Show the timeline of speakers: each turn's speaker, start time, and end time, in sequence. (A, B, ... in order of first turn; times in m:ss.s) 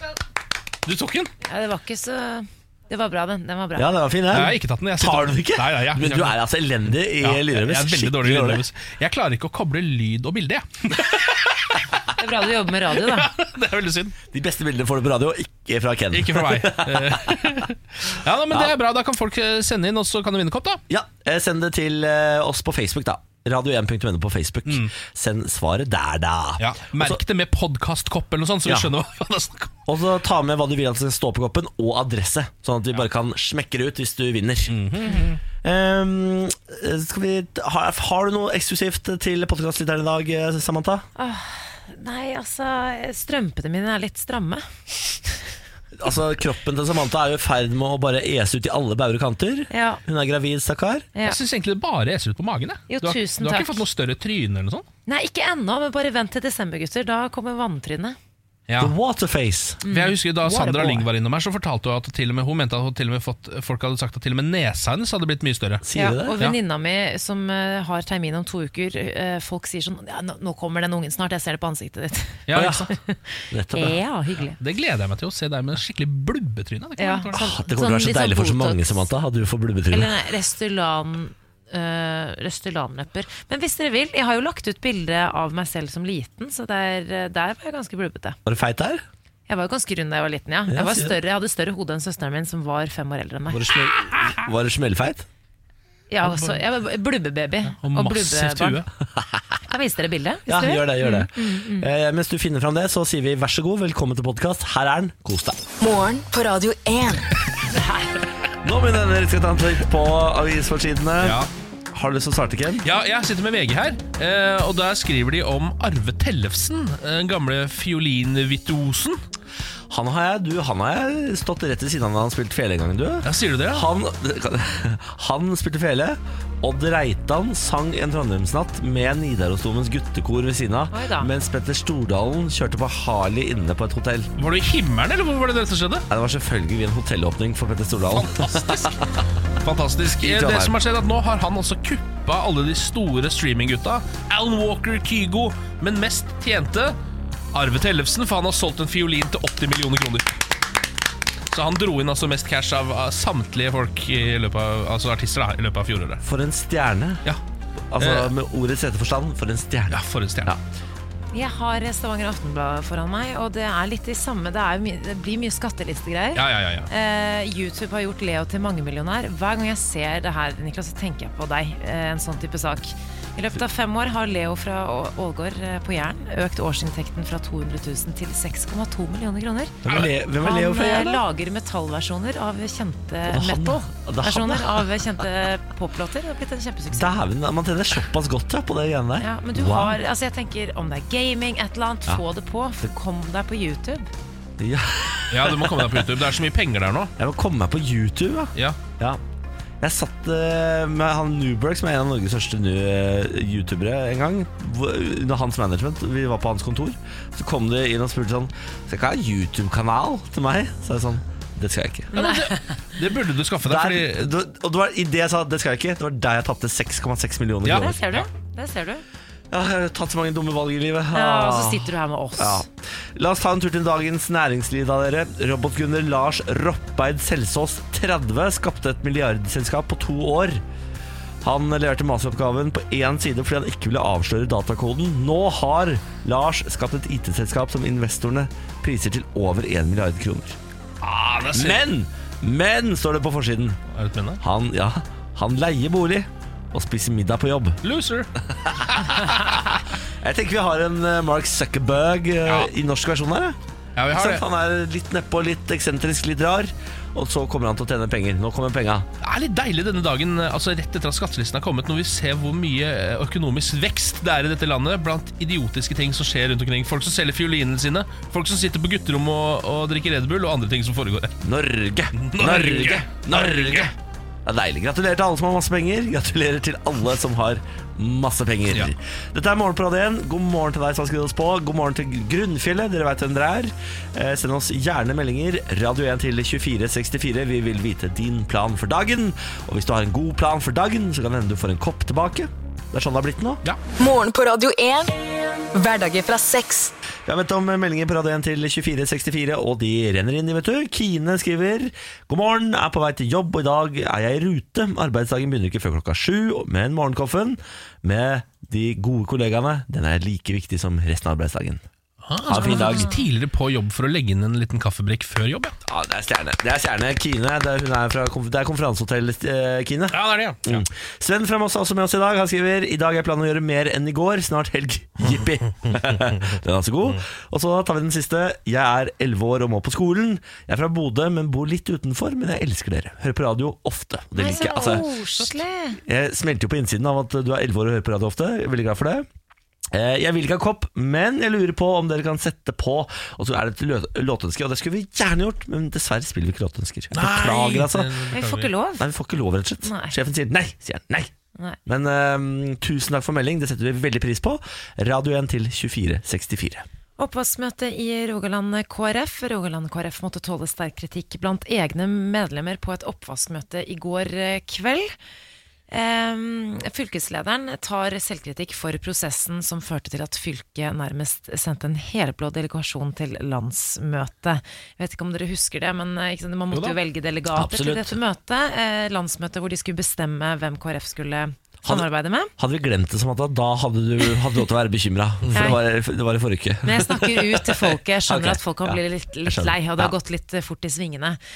0:00.8-0:01.3 A
0:01.4-0:03.9 B
0:03.8-0:08.6 C
0:04.3-0:06.4 A
0:07.2-0:11.2 A
0:12.2-0:13.3 B
0:13.0-0:14.2 A
0:14.3-0:17.4 C
0:16.1-0:20.8 A
0:20.9-0:27.2 C
0:24.6-0:24.9 A
0:26.6-0:29.8 A
0:28.6-0:28.9 C
0:29.8-0:35.1 C
0:34.7-0:35.4 A
0:35.6-0:41.0 C
0:41.2-0:44.6 B
0:46.0-0:51.0 C
0:49.7-0:50.0 B
0:51.2-0:54.9 A
0:52.9-0:53.8 B
0:55.0-0:58.2 B
0:58.7-0:58.9 A
0:58.8-0:59.8 C
0:59.8-1:01.0 B
0:59.9-1:05.8 A
1:05.8-1:06.3 C
1:05.9-1:14.6 B
1:12.5-1:12.9 A
1:12.5-1:12.8 C
1:13.5-1:14.0 C
1:14.6-1:17.4 A
1:17.0-1:19.1 B
1:17.3-1:20.1 C
1:19.9-1:28.4 B
1:28.4-1:29.0 C
1:29.5-1:33.8 B
1:30.7-1:31.1 C
1:33.5-1:35.2 C
1:36.1-1:38.8 B
1:36.2-1:36.6 A
1:37.7-1:38.9 A
1:39.7-1:41.9 B
1:40.5-1:45.6 C
1:45.8-1:47.3 D
1:48.6-1:51.4 C
1:51.2-1:51.5 A
1:51.9-1:52.8 C
1:52.8-1:59.2 A
1:59.9-2:14.3 C
2:03.2-2:03.8 A
2:10.9-2:11.3 B
2:14.4-2:16.1 A
2:16.1-2:19.0 C
2:18.1-2:19.0 A
2:19.6-2:27.0 A
2:20.1-2:20.8 C
2:27.5-2:30.3 A
2:31.5-2:36.2 A
2:36.2-2:37.2 C
2:37.9-2:40.6 C
2:38.0-2:38.3 A
2:39.9-2:40.5 A
2:41.3-3:07.2 B
2:46.3-2:46.9 A
2:59.8-3:01.2 C
3:03.3-3:04.8 C
3:06.9-3:10.0 C
3:09.2-3:14.1 B
3:14.6-3:16.1 C
3:15.3-3:17.1 A
3:17.2-3:19.2 C
3:19.8-3:32.1 C
3:32.1-3:34.3 A
3:32.1-3:32.6 B
3:33.6-3:38.0 C
3:37.6-3:38.3 A
3:37.7-3:39.0 B
3:39.5-3:50.6 C
3:41.1-3:42.6 B
3:51.4-4:00.6 C
4:01.0-4:01.8 A
4:01.5-4:03.8 C
4:03.9-4:04.4 A
4:04.4-4:07.8 C
4:07.8-4:08.3 A
4:08.6-4:13.6 C
4:08.9-4:09.7 A
4:12.4-4:12.7 A
4:14.0-4:14.4 A
4:14.1-4:19.1 C
4:19.2-4:31.3 A
4:31.4-4:33.9 C
4:32.2-4:33.9 A
4:34.4-4:53.6 C
4:54.0-4:55.1 D
4:55.7-4:56.9 D
4:57.2-5:11.8 C
5:12.2-5:15.7 A
5:12.4-5:13.1 C
5:12.8-5:13.1 B
5:15.8-5:35.0 C
5:20.1-5:20.8 A
5:34.4-5:36.0 B
5:34.5-5:35.1 A
5:36.0-5:39.2 C
5:39.9-5:48.2 C
5:47.1-5:48.7 A
5:48.3-5:49.0 B
5:49.0-5:51.3 C
5:49.8-5:50.1 B
5:51.8-5:56.8 C
5:57.2-6:05.1 B
6:05.9-6:22.5 B
6:17.5-6:18.2 C
6:22.6-6:30.1 C
6:25.4-6:25.7 A
6:25.5-6:25.8 B
6:26.8-6:31.4 B